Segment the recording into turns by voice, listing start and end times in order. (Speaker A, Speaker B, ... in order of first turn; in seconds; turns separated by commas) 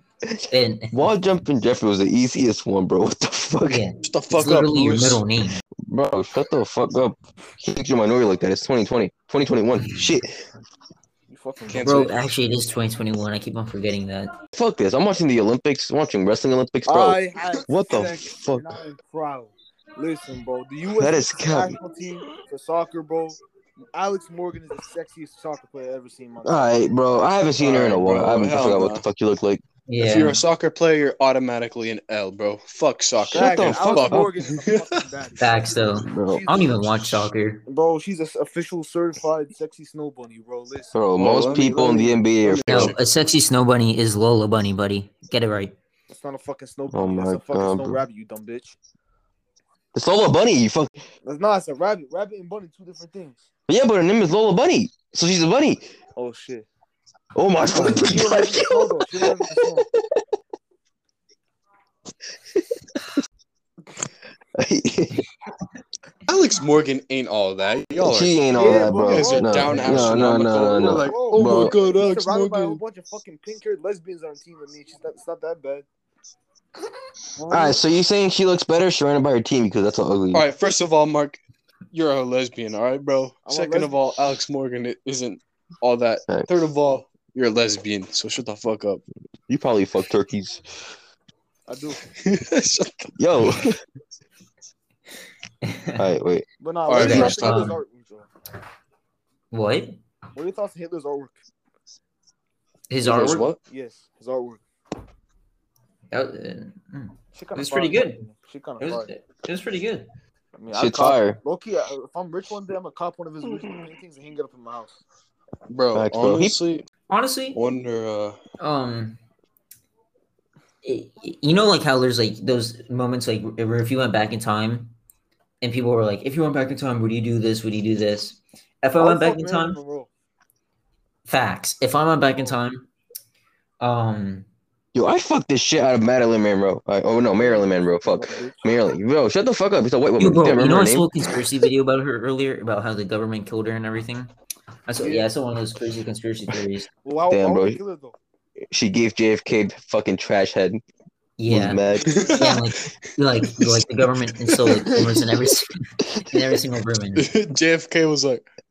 Speaker A: 0.5-0.9, Speaker B: 0.9-3.8, Speaker A: 3.6-5.6, Speaker C: 4.0-5.2, Speaker B: 5.9-10.4, Speaker D: 11.3-12.1, Speaker C: 11.7-12.1, Speaker A: 11.8-14.3, Speaker B: 14.6-18.7, Speaker D: 16.9-23.4, Speaker B: 20.9-21.8, Speaker D: 23.9-26.8, Speaker B: 26.4-29.6, Speaker C: 27.6-29.0, Speaker A: 29.9-30.4, Speaker C: 30.0-35.0, Speaker B: 33.2-34.3, Speaker D: 33.3-35.5, Speaker A: 35.4-37.6, Speaker B: 35.9-36.5, Speaker D: 36.2-36.8, Speaker D: 37.7-41.0, Speaker B: 40.9-42.9, Speaker C: 41.1-43.0, Speaker A: 42.7-45.7, Speaker D: 46.1-48.7, Speaker B: 46.9-48.0, Speaker B: 49.9-51.0, Speaker D: 51.2-53.5, Speaker B: 53.7-55.8, Speaker D: 56.1-56.7, Speaker B: 57.3-60.0, Speaker D: 57.7-59.9, Speaker B: 64.6-65.2, Speaker C: 66.3-72.8, Speaker B: 68.0-71.8, Speaker D: 68.5-75.8, Speaker D: 77.3-77.8, Speaker B: 77.5-80.4, Speaker C: 80.3-81.4, Speaker C: 81.9-89.0, Speaker D: 83.5-83.9, Speaker B: 89.5-90.6, Speaker D: 91.7-92.0, Speaker C: 92.1-93.7, Speaker B: 93.2-93.8, Speaker A: 95.6-96.0, Speaker B: 96.0-96.4, Speaker D: 96.6-98.3, Speaker C: 96.9-97.7, Speaker A: 96.9-97.8, Speaker A: 99.5-100.0, Speaker D: 100.3-101.4, Speaker A: 102.9-103.5, Speaker C: 103.0-103.6, Speaker D: 103.7-104.6, Speaker A: 106.1-108.2, Speaker D: 107.3-109.1, Speaker A: 108.8-110.1, Speaker D: 110.5-115.0, Speaker B: 110.7-111.4, Speaker C: 115.7-116.8, Speaker B: 115.9-116.6, Speaker A: 117.1-117.6, Speaker C: 117.5-118.4, Speaker A: 118.6-119.2, Speaker A: 120.8-124.9, Speaker A: 125.6-129.8, Speaker D: 129.0-130.1, Speaker A: 131.2-132.9, Speaker A: 133.8-134.5, Speaker B: 134.9-141.1, Speaker D: 137.3-138.7, Speaker A: 140.2-144.3, Speaker A: 144.9-146.9, Speaker D: 147.0-148.2, Speaker B: 147.3-147.8, Speaker B: 148.7-150.8, Speaker A: 151.4-157.3, Speaker B: 151.5-152.2, Speaker D: 151.9-152.4, Speaker C: 152.1-152.9, Speaker C: 153.4-153.8, Speaker C: 154.4-155.2, Speaker C: 157.1-158.4